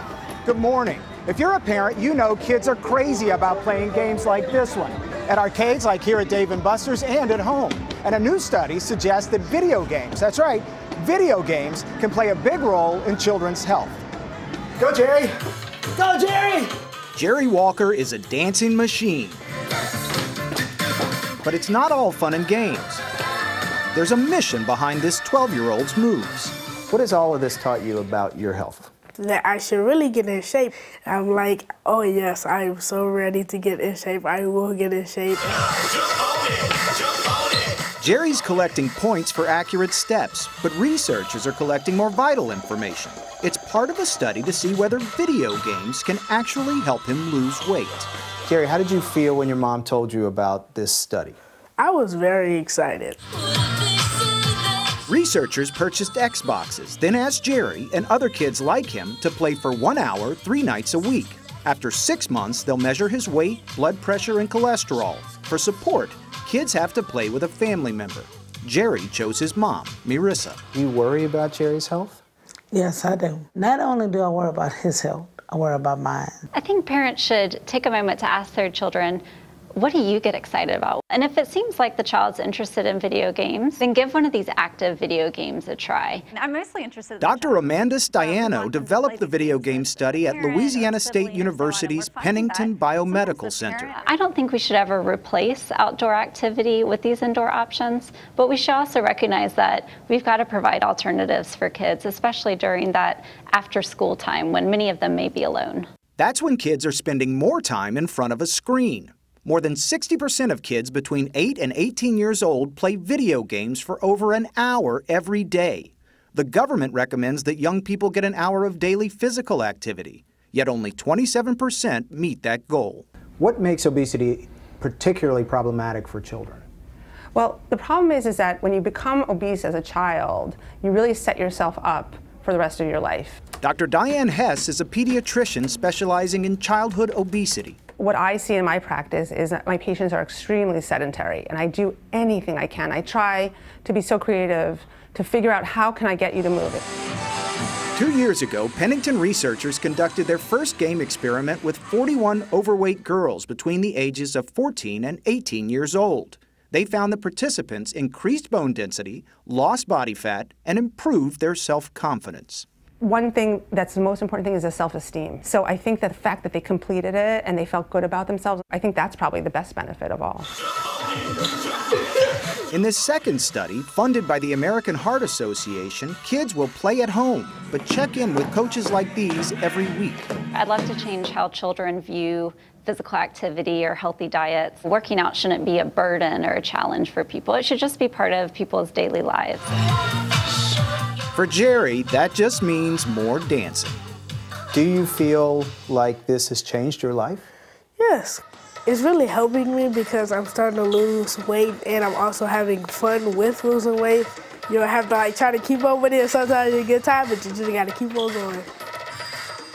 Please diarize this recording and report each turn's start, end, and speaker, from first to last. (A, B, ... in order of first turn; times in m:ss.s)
0:00.4-0:14.0 A
0:14.8-0:15.3 A
0:16.0-0:16.7 A
0:17.1-0:19.4 B
0:21.4-0:23.0 B
0:23.9-0:26.5 B
0:26.9-0:28.9 A
0:29.2-0:35.6 C
0:38.0-0:48.1 B
0:48.4-0:51.4 A
0:51.8-0:53.2 C
0:55.1-1:10.6 B
1:10.7-1:12.2 A
1:12.7-1:16.4 D
1:16.5-1:26.3 E
1:26.3-1:34.1 F
1:27.2-1:33.9 B
1:33.9-1:45.9 E
1:46.2-2:03.0 B
2:03.4-2:06.6 A
2:07.3-2:13.5 G
2:13.6-2:17.8 B
2:18.0-2:26.9 G
2:27.9-2:42.6 B
2:43.0-2:50.5 G
2:52.7-3:00.3 B
3:00.5-3:09.7 E
3:11.3-3:14.0 B
3:14.7-3:17.4 A
3:18.0-3:28.7 C